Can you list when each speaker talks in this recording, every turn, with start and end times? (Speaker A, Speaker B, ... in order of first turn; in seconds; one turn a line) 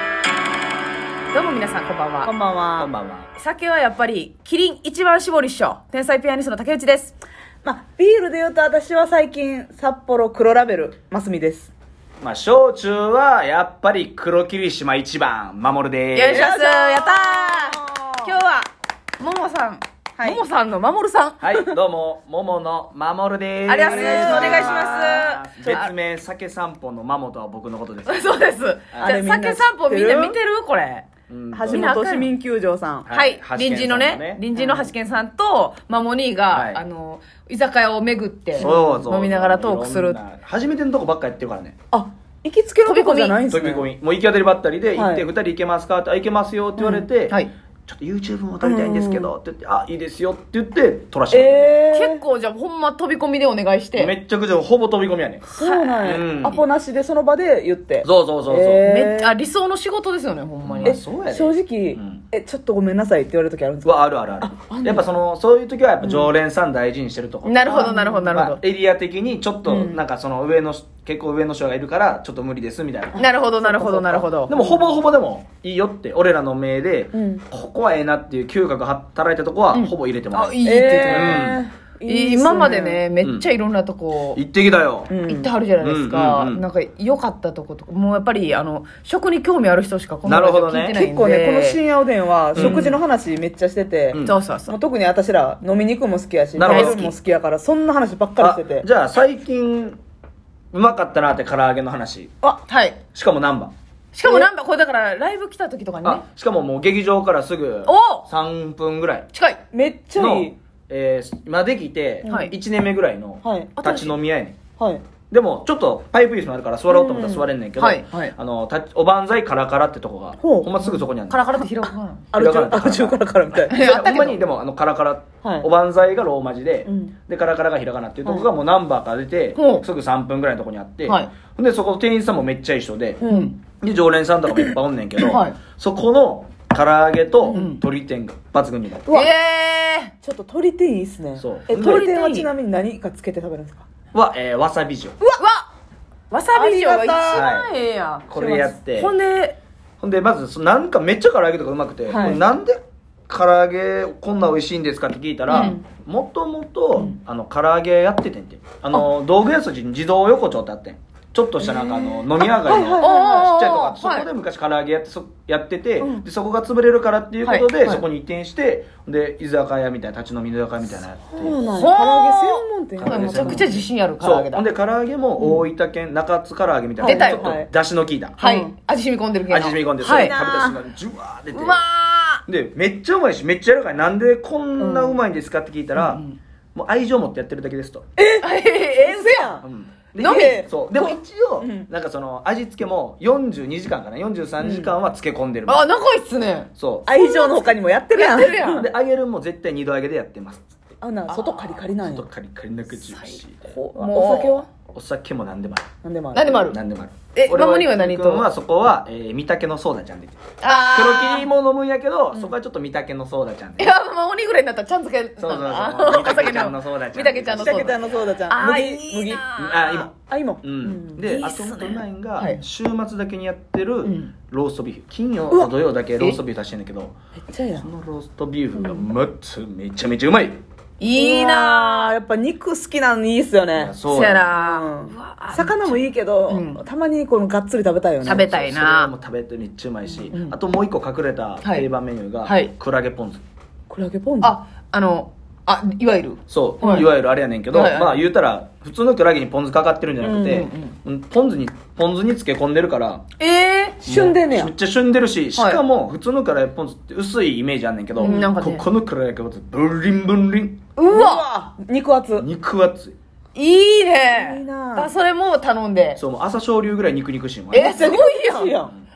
Speaker A: 1.3-2.3
Speaker B: 2.2-2.9
Speaker C: 2.8-3.3
Speaker A: 3.4-7.2
Speaker B: 7.6-11.7
Speaker C: 12.2-16.6
Speaker A: 16.1-21.4
Speaker B: 16.3-18.4
Speaker B: 20.2-20.4
Speaker C: 21.4-28.4
Speaker A: 23.7-25.9
Speaker B: 23.8-25.9
Speaker A: 28.1-31.1
Speaker C: 28.9-29.2
Speaker B: 29.0-30.4
Speaker C: 31.3-31.9
Speaker B: 31.5-33.1
Speaker A: 31.7-32.3
Speaker C: 33.0-34.4
Speaker A: 33.1-40.2
Speaker B: 34.5-34.9
Speaker C: 36.5-36.8
Speaker C: 38.6-41.8
Speaker B: 38.6-39.1
Speaker B: 41.9-43.9
Speaker A: 42.8-43.4
Speaker C: 43.5-47.4
Speaker B: 45.0-45.2
Speaker B: 46.8-47.1
Speaker C: 47.9-51.8
Speaker B: 48.6-49.3
Speaker B: 51.3-52.2
Speaker A: 51.9-54.2
Speaker C: 54.0-55.5
Speaker A: 55.5-56.1
Speaker B: 55.5-59.4
Speaker C: 56.0-56.6
Speaker C: 58.0-58.9
Speaker A: 58.9-61.0
Speaker C: 60.6-62.2
Speaker B: 60.9-65.1
Speaker C: 63.8-73.3
Speaker B: 66.0-66.3
Speaker A: 67.4-68.6
Speaker B: 67.7-68.4
Speaker B: 69.7-70.0
Speaker A: 73.2-74.5
Speaker B: 73.2-75.0
Speaker C: 74.5-81.6
Speaker B: 77.1-77.4
Speaker A: 79.7-81.5
Speaker B: 80.6-83.0
Speaker A: 82.0-84.4
Speaker C: 83.2-83.5
Speaker C: 84.3-85.1
Speaker B: 85.1-85.5
Speaker A: 85.3-91.8
Speaker C: 85.8-86.6
Speaker C: 90.2-91.0
Speaker B: 90.9-98.9
Speaker C: 92.5-92.9
Speaker A: 92.5-93.0
Speaker C: 94.1-94.4
Speaker A: 94.2-94.7
Speaker C: 96.5-97.1
Speaker A: 96.6-97.1
Speaker C: 98.4-100.0
Speaker C: 100.7-102.3
Speaker A: 102.7-103.0
Speaker C: 103.1-103.7
Speaker A: 104.1-106.2
Speaker B: 104.2-104.5
Speaker C: 106.0-109.3
Speaker A: 107.8-108.3
Speaker A: 109.3-109.6
Speaker B: 109.7-110.5
Speaker C: 110.2-114.6
Speaker B: 112.2-112.5
Speaker A: 112.3-112.5
Speaker B: 113.4-113.8
Speaker A: 113.8-114.1
Speaker B: 114.8-115.0
Speaker C: 115.3-121.4
Speaker B: 116.9-117.5
Speaker A: 117.8-118.3
Speaker B: 120.4-121.0
Speaker A: 121.3-122.3
Speaker B: 122.3-123.8
Speaker C: 122.3-133.2
Speaker A: 123.7-124.4
Speaker B: 125.4-125.7
Speaker B: 126.9-127.1
Speaker A: 129.6-129.8
Speaker B: 133.2-133.5
Speaker A: 133.2-133.6
Speaker C: 133.8-139.1
Speaker A: 135.2-135.6
Speaker B: 137.4-137.7
Speaker A: 137.5-137.8
Speaker B: 139.1-139.3
Speaker A: 139.1-140.1
Speaker B: 140.2-143.8
Speaker C: 141.4-142.1
Speaker A: 141.8-142.5
Speaker C: 144.1-145.2
Speaker A: 145.4-145.7
Speaker A: 146.3-148.3
Speaker B: 146.6-147.5
Speaker C: 147.3-147.7
Speaker C: 148.3-149.1
Speaker B: 148.3-148.8
Speaker A: 148.9-149.6
Speaker C: 150.0-171.6
Speaker B: 152.1-152.4
Speaker B: 155.5-155.8
Speaker A: 155.5-155.8
Speaker B: 161.6-163.4
Speaker A: 163.0-164.3
Speaker A: 167.4-168.0
Speaker B: 171.3-173.7
Speaker A: 171.7-174.7
Speaker C: 173.0-178.4
Speaker B: 177.0-177.7
Speaker A: 177.0-177.5
Speaker A: 178.4-180.4
Speaker B: 178.4-178.7
Speaker C: 179.5-181.8
Speaker B: 180.1-180.8
Speaker A: 181.5-182.4
Speaker C: 182.5-186.2
Speaker B: 184.8-185.2
Speaker A: 186.0-186.4
Speaker C: 186.8-188.1
Speaker B: 188.2-188.5
Speaker A: 188.4-189.6
Speaker B: 189.0-189.7
Speaker C: 189.6-195.9
Speaker B: 190.2-191.9
Speaker A: 190.2-190.7
Speaker B: 194.6-194.9
Speaker A: 195.7-198.9
Speaker C: 196.8-197.1
Speaker B: 197.1-198.9
Speaker C: 198.4-200.9
Speaker B: 201.0-202.3
Speaker A: 201.3-201.8
Speaker C: 201.8-203.8
Speaker A: 202.9-204.7
Speaker B: 203.7-204.7
Speaker C: 204.9-205.9
Speaker B: 206.0-206.7
Speaker A: 206.3-206.8
Speaker C: 206.5-210.4
Speaker A: 207.3-208.5
Speaker A: 210.6-211.5
Speaker C: 210.9-213.9
Speaker A: 213.8-220.1
Speaker C: 215.4-218.2
Speaker B: 217.5-221.3
Speaker C: 219.6-227.2
Speaker A: 221.2-222.6
Speaker A: 224.0-224.3
Speaker B: 227.4-227.9
Speaker C: 227.8-230.6
Speaker B: 228.8-229.1
Speaker A: 231.0-232.1
Speaker B: 231.1-234.0
Speaker C: 233.8-234.5
Speaker A: 234.1-236.8
Speaker B: 234.5-238.5
Speaker A: 238.2-239.1
Speaker C: 238.3-243.4
Speaker A: 240.3-240.6
Speaker A: 241.6-241.9
Speaker A: 242.4-242.7
Speaker B: 243.9-244.6
Speaker A: 244.4-247.1
Speaker C: 246.5-253.2
Speaker A: 247.7-248.2
Speaker B: 250.2-250.7
Speaker A: 250.5-250.9
Speaker A: 253.4-254.0
Speaker B: 254.0-254.7
Speaker C: 254.0-260.8
Speaker A: 255.6-255.8
Speaker B: 258.2-258.5
Speaker A: 258.2-258.9
Speaker A: 261.0-261.4
Speaker B: 261.1-262.5
Speaker C: 262.4-263.2
Speaker A: 263.6-266.2
Speaker B: 264.3-265.1
Speaker C: 266.2-268.2
Speaker A: 267.7-268.8
Speaker B: 267.8-268.9